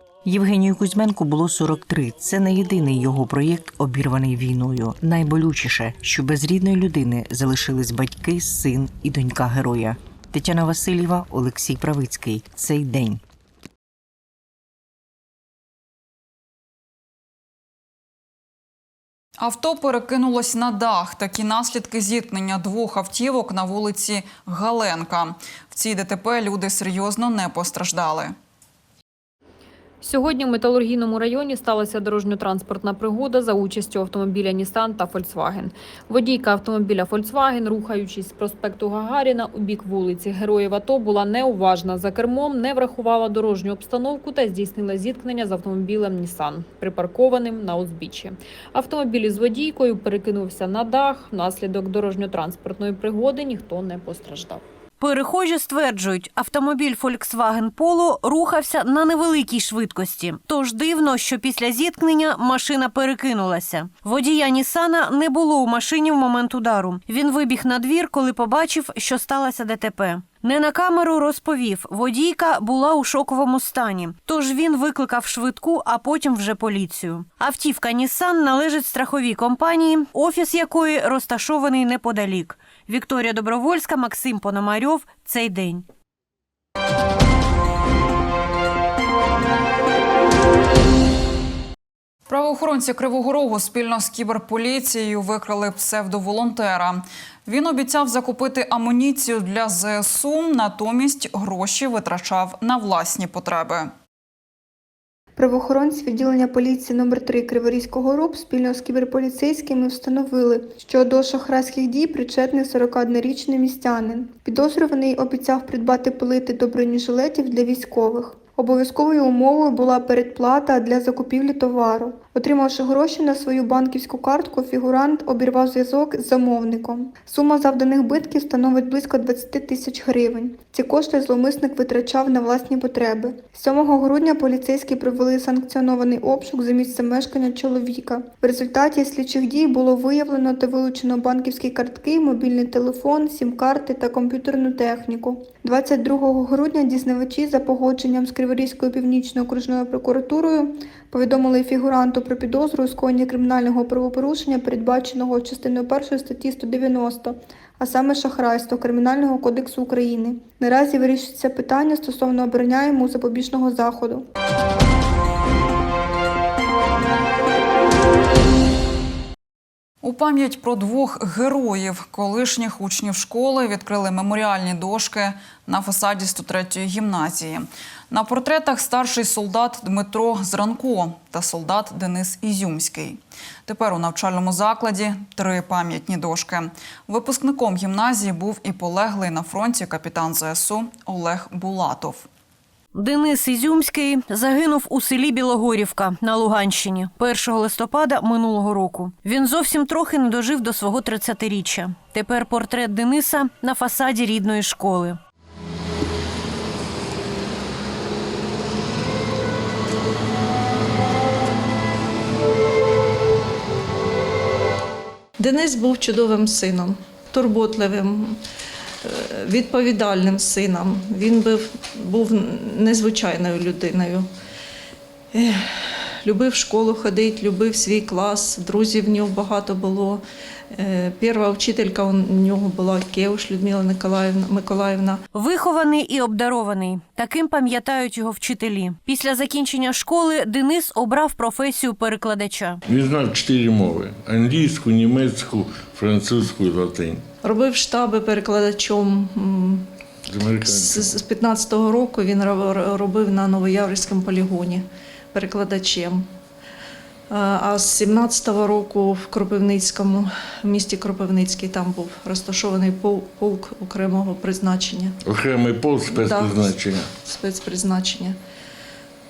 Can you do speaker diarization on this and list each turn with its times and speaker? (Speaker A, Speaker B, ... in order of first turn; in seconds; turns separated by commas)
Speaker A: 0.2-13.2, Speaker B: 19.4-28.3, Speaker C: 30.0-54.6, Speaker D: 55.0-85.8, Speaker B: 92.3-103.9, Speaker E: 105.4-164.3, Speaker B: 170.0-192.3, Speaker D: 192.9-205.2, Speaker F: 215.4-218.4, Speaker F: 219.0-224.3, Speaker F: 225.3-235.2, Speaker D: 235.3-242.8, Speaker G: 242.9-247.2, Speaker F: 247.4-249.9, Speaker G: 250.2-251.1, Speaker F: 250.6-256.3, Speaker F: 257.3-265.2, Speaker G: 265.2-267.1, Speaker F: 266.1-268.4